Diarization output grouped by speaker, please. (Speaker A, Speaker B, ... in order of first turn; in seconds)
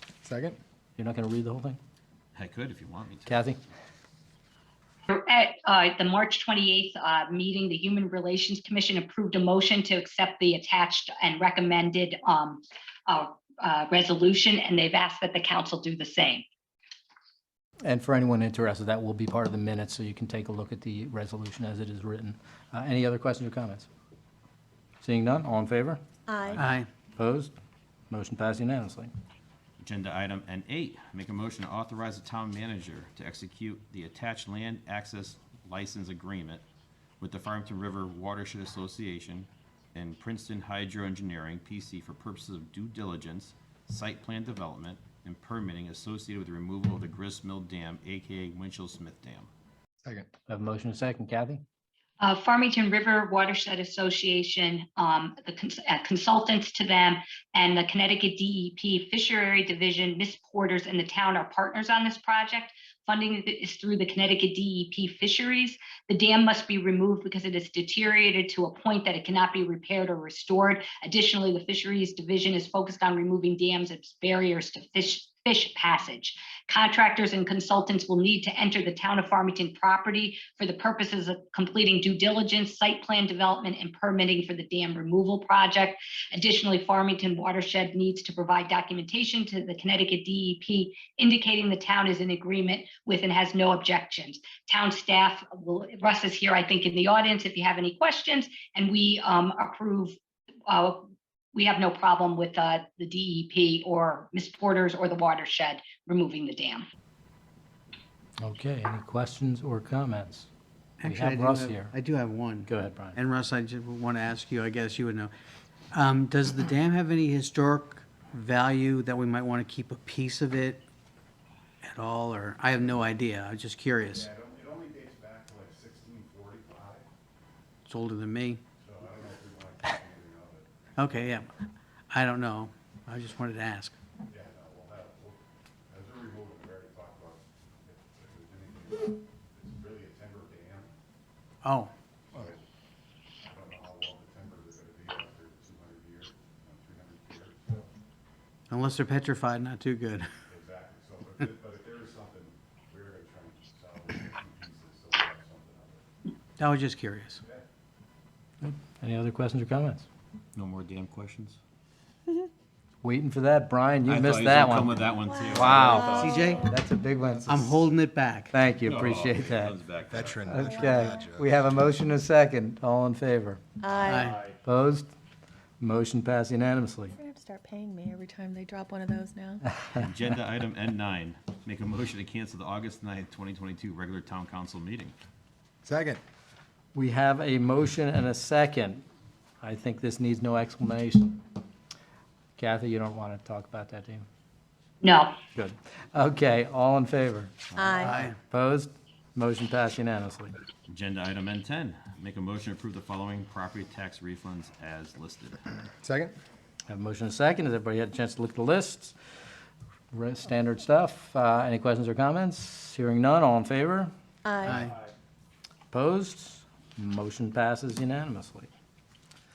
Speaker A: 0.2-0.6, 170.1-171.4, 185.8-186.2, 206.0-206.3
Speaker B: 1.0-1.8, 3.3-3.6, 17.8-23.9, 25.0-26.0, 27.2-27.5, 28.1-29.1, 50.5-51.6, 108.4-110.5, 111.0-111.9, 112.7-113.2, 158.6-160.1, 163.0-167.8, 168.5-173.6, 174.6-175.1, 175.8-177.2, 186.9-189.0, 189.6-191.4, 192.6-194.3, 195.6-197.6, 198.4-200.5, 206.9-209.2, 210.1-214.1, 215.9-218.7
Speaker C: 2.4-3.5, 29.8-36.6, 37.2-49.5, 160.6-161.6, 164.1-166.7, 168.8-170.5, 173.9-174.6, 180.0-185.2, 200.9-205.7
Speaker D: 5.1-16.4, 52.2-100.2, 100.7-106.9, 195.0-195.3
Speaker E: 26.3-26.6, 165.3-166.8, 170.5-171.4, 173.8-174.3, 177.2-179.7, 197.8-198.3, 214.4-214.8
Speaker F: 26.6-26.9, 111.0-115.3, 115.9-120.8, 121.8-124.3, 127.9-128.6, 131.0-131.5, 132.1-133.9, 141.6-141.9, 148.7-150.3, 156.6-157.4, 166.0-166.7, 167.4-168.5, 174.1-174.4, 198.0-198.3, 214.7-214.9
Speaker G: 124.1-127.1, 128.8-131.4, 134.3-140.9, 142.3-142.6, 143.4-147.9, 150.5-156.0